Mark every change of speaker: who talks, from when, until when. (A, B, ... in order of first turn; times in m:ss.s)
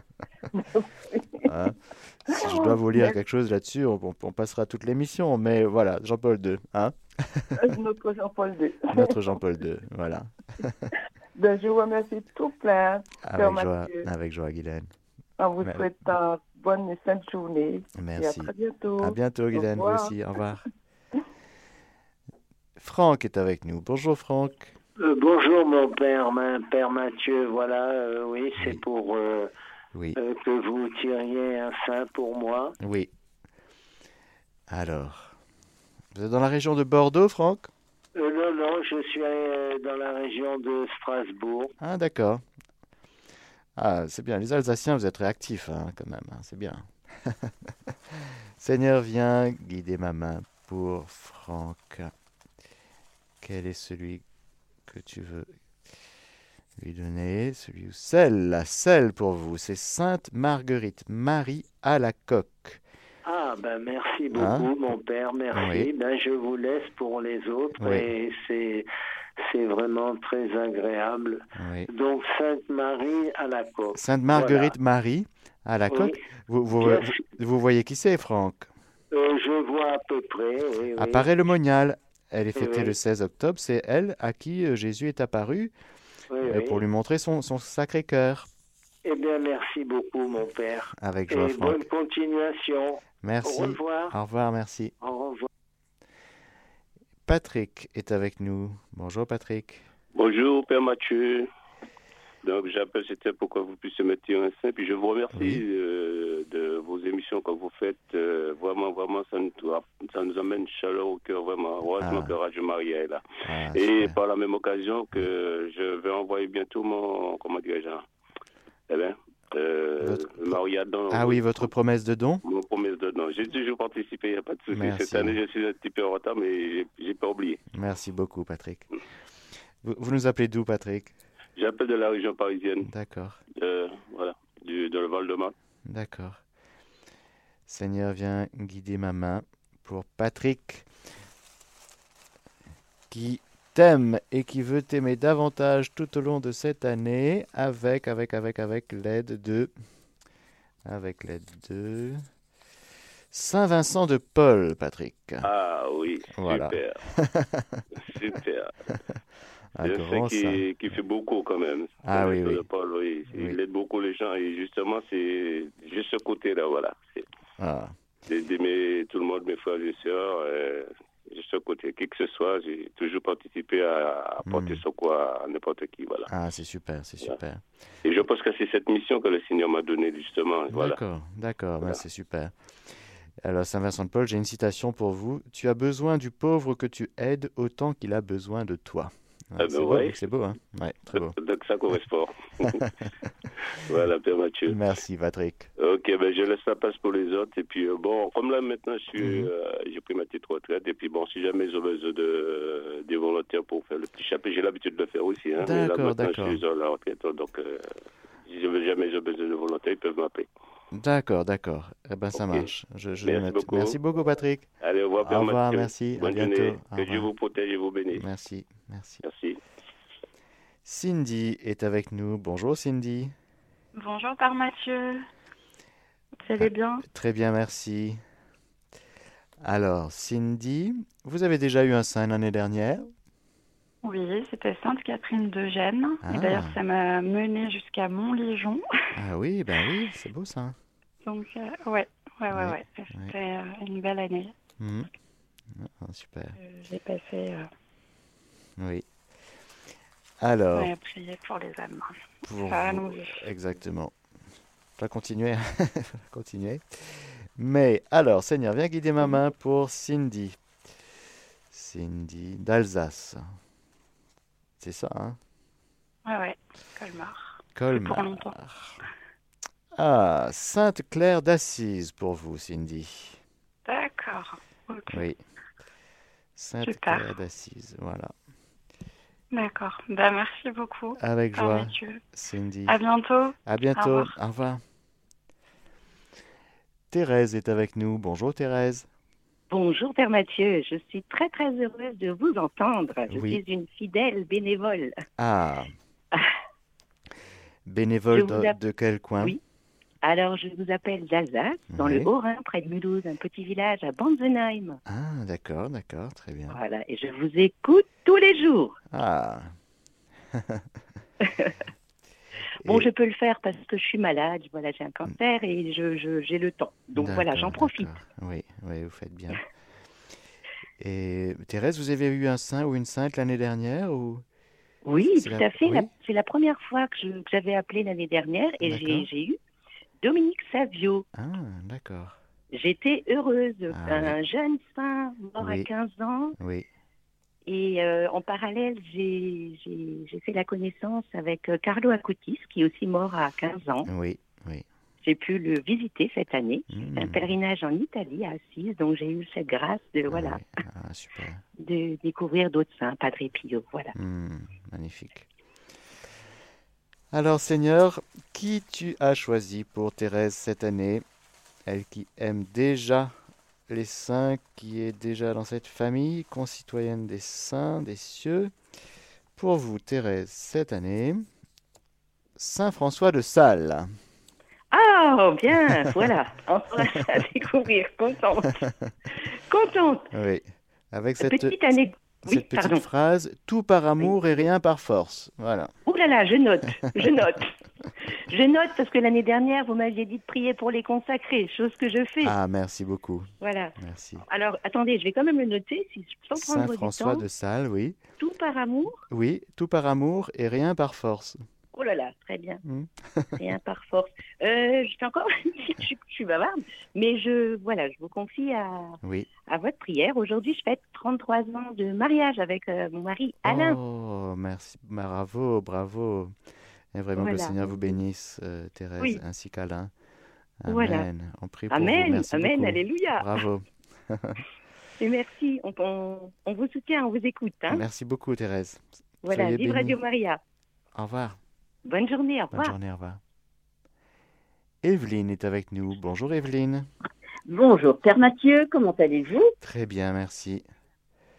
0:00.5-0:01.5 A
0:01.4-0:07.6 B
0:02.3-0:03.2 A
0:07.6-0:09.3 A
0:08.9-0:10.9 B
0:11.4-0:14.1 A
0:13.2-0:14.9 B
0:15.4-0:20.2 A
0:15.6-0:16.1 B
0:18.0-0:20.6 B
0:22.8-0:24.7 B
0:25.0-0:29.5 C
0:30.2-0:32.8 C
0:32.8-0:33.1 B
0:34.7-0:35.4 B
0:36.1-0:37.7 B
0:38.2-0:41.7 C
0:41.8-0:42.4 B
0:43.8-0:47.5 B
0:48.1-0:52.1 B
0:53.4-0:54.2 B
0:54.9-0:55.6 B
0:56.8-1:02.8 B
1:03.2-1:08.9 C
1:04.3-1:04.7 B
1:05.6-1:05.9 B
1:07.8-1:08.1 B
1:09.4-1:14.8 C
1:11.6-1:11.9 B
1:14.0-1:18.7 B
1:15.9-1:16.2 C
1:16.8-1:17.2 C
1:19.1-1:21.4 C
1:21.0-1:25.7 B
1:22.6-1:22.9 C
1:26.3-1:26.8 C
1:26.4-1:28.5 B
1:29.0-1:34.2 C
1:31.0-1:31.9 B
1:33.2-1:34.9 B
1:35.0-1:35.5 C
1:37.3-1:39.9 B
1:40.2-1:41.5 D
1:42.4-1:53.2 D
1:45.3-1:45.6 B
1:52.0-1:52.3 B
1:53.4-1:54.2 B
1:53.7-1:58.0 D
1:58.9-2:01.7 D
2:00.0-2:00.6 B
2:01.1-2:02.4 B
2:02.4-2:07.6 D
2:04.7-2:05.4 B
2:07.7-2:08.9 B
2:09.8-2:11.1 B
2:11.6-2:12.9 D
2:12.8-2:13.4 B
2:13.6-2:15.5 D
2:15.9-2:16.4 B
2:17.7-2:20.9 B
2:23.1-2:29.7 B
2:30.9-2:32.3 B
2:33.3-2:35.5 B
2:35.4-2:37.0 D
2:36.4-2:37.8 B
2:38.1-2:38.7 D
2:39.8-2:40.6 B
2:39.8-2:47.2 D
2:42.0-2:42.6 B
2:47.6-2:48.0 B
2:48.3-2:56.3 D
2:54.4-2:54.8 B
2:56.3-2:57.6 B
2:58.0-3:01.0 D
3:00.7-3:02.5 B
3:03.4-3:11.3 B
3:09.6-3:10.2 D
3:11.2-3:12.8 D
3:13.8-3:14.8 D
3:14.7-3:15.7 B
3:15.8-3:27.9 D
3:19.2-3:19.5 B
3:25.6-3:26.6 B
3:28.5-3:30.5 D
3:30.9-3:34.7 B
3:32.4-3:32.7 D
3:33.2-3:34.0 D
3:34.8-3:38.2 D
3:35.2-3:37.3 B
3:38.1-3:39.2 B
3:39.2-3:39.6 D
3:40.8-3:43.3 B
3:44.0-3:45.2 E
3:46.5-3:46.8 F
3:46.6-3:48.2 B
3:49.6-3:53.1 B
3:54.0-3:58.8 E
3:56.2-3:56.8 B
3:59.2-4:00.8 B
4:01.2-4:04.6 E
4:02.5-4:03.3 B
4:04.8-4:05.1 B
4:05.7-4:06.6 B
4:06.6-4:07.7 E
4:08.8-4:09.1 B
4:10.4-4:10.9 B
4:10.8-4:13.4 E
4:12.4-4:14.2 B
4:15.0-4:20.6 B
4:21.7-4:23.6 B
4:24.8-4:25.4 B
4:26.2-4:28.6 E
4:27.8-4:29.0 B
4:30.0-4:33.4 B
4:33.8-4:35.3 E
4:35.1-4:35.4 B
4:36.6-4:38.3 B
4:36.8-4:37.3 E
4:39.5-4:42.2 E
4:41.2-4:43.0 B
4:42.9-4:44.4 E
4:43.7-4:44.8 B
4:47.1-4:49.1 B
4:49.7-4:55.2 F
4:53.3-4:53.6 B
4:55.4-4:55.9 B
4:57.9-4:59.6 B
4:58.3-4:58.8 F
5:00.2-5:05.0 F
5:01.9-5:02.3 B
5:05.1-5:06.8 B
5:06.7-5:09.0 F
5:09.1-5:09.7 B
5:10.6-5:10.8 B
5:11.4-5:11.7 F
5:12.8-5:13.1 B
5:12.8-5:18.2 F
5:17.2-5:19.6 B
5:21.0-5:24.4 B
5:25.0-5:29.6 F
5:25.2-5:26.1 B
5:28.8-5:29.3 B
5:30.2-5:31.3 F
5:31.4-5:32.4 B
5:32.7-5:36.6 F
5:33.9-5:34.4 B
5:35.6-5:35.9 B
5:36.6-5:36.9 B
5:37.7-5:44.1 F
5:44.1-5:44.8 B
5:45.2-5:50.6 F
5:46.9-5:47.5 B
5:50.3-5:51.6 B
5:51.8-5:54.2 F
5:54.2-5:55.5 B
5:57.3-6:01.2 B
6:01.9-6:03.4 B
6:03.9-6:08.7 B
6:09.6-6:11.5 B
6:12.6-6:14.1 B
6:14.9-6:18.8 F
6:16.0-6:16.3 B
6:19.7-6:20.3 F
6:20.3-6:21.8 B
6:21.4-6:23.0 F
6:22.4-6:25.9 B
6:26.1-6:27.7 F
6:28.5-6:32.6 F
6:32.4-6:34.4 B
6:33.6-6:34.0 F
6:34.5-6:37.4 F
6:36.6-6:38.2 B
6:38.4-6:39.2 F
6:39.3-6:41.6 B
6:41.9-6:42.8 F
6:42.8-6:43.5 B
6:43.6-6:54.0 F
6:49.2-6:49.5 B
6:53.6-6:56.5 B
6:57.1-7:00.1 B
6:57.4-6:58.2 F
7:00.8-7:04.6 B
7:00.9-7:01.3 F
7:01.9-7:03.6 F
7:05.2-7:08.0 F
7:07.9-7:10.2 B
7:09.4-7:10.6 F
7:11.2-7:11.6 B
7:12.1-7:13.0 F
7:12.7-7:13.4 B
7:15.0-7:17.1 B
7:17.7-7:19.7 G
7:19.8-7:20.8 B